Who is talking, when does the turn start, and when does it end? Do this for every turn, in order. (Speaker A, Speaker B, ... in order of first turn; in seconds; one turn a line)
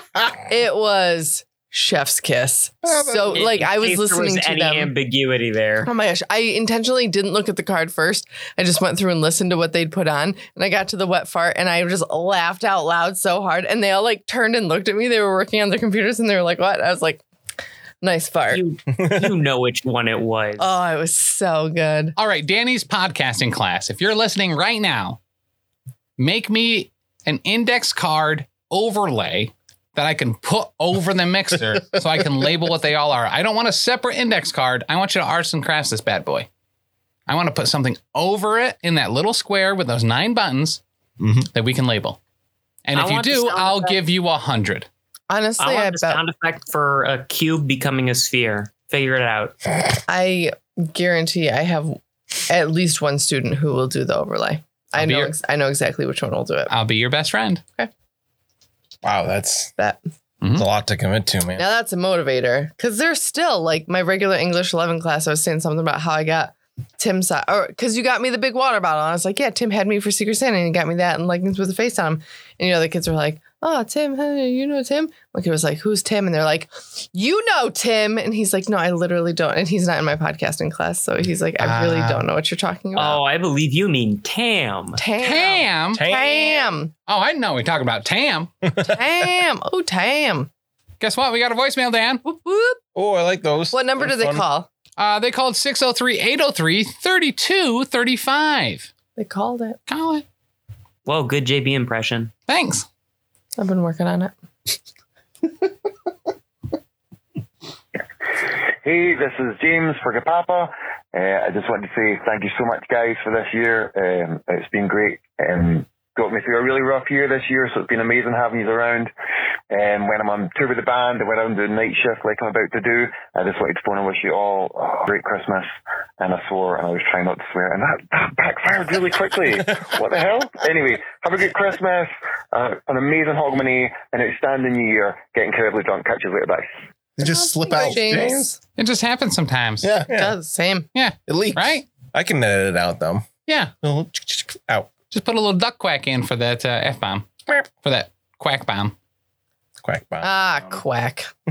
Speaker A: 0.4-4.9
Speaker B: 2.8-3.4
Speaker C: 3.3-5.9
Speaker A: 5.8-17.2
Speaker A: 18.0-18.6
Speaker C: 18.5-20.7
Speaker D: 18.9-19.3
Speaker A: 20.6-22.1
Speaker E: 22.1-25.2
Speaker E: 26.2-36.5
Speaker E: 37.3-40.8
Speaker B: 41.2-41.5
Speaker E: 41.5-42.2
Speaker E: 42.8-44.9
Speaker C: 42.9-44.0
Speaker A: 45.3-46.2
Speaker C: 45.6-49.6
Speaker A: 50.1-56.7
Speaker E: 55.0-55.3
Speaker E: 56.7-57.6
Speaker D: 59.0-59.7
Speaker E: 60.4-60.7
Speaker D: 60.5-61.6
Speaker A: 61.5-83.2
Speaker E: 81.6-82.2
Speaker C: 82.9-85.0
Speaker A: 85.0-86.9
Speaker E: 85.2-86.1
Speaker D: 85.9-86.7
Speaker E: 87.0-88.7
Speaker D: 88.6-89.0
Speaker A: 88.8-90.5
Speaker E: 91.0-92.2
Speaker A: 92.2-92.8
Speaker D: 92.9-94.4
Speaker A: 93.7-94.7
Speaker E: 95.0-98.9
Speaker A: 99.2-99.8
Speaker E: 99.9-100.2
Speaker C: 101.0-102.3
Speaker E: 102.5-102.8
Speaker A: 103.6-104.3
Speaker F: 108.8-119.1
Speaker F: 119.7-125.7
Speaker F: 126.2-136.7
Speaker B: 137.2-138.3
Speaker A: 137.2-138.6
Speaker D: 137.7-138.5
Speaker E: 138.8-139.9
Speaker B: 139.8-140.1
Speaker D: 140.1-140.3
Speaker A: 140.1-140.9
Speaker E: 140.9-141.9
Speaker B: 141.3-141.7
Speaker D: 142.1-144.9
Speaker E: 143.5-143.7
Speaker E: 145.1-148.9
Speaker D: 149.8-150.8
Speaker A: 150.2-151.3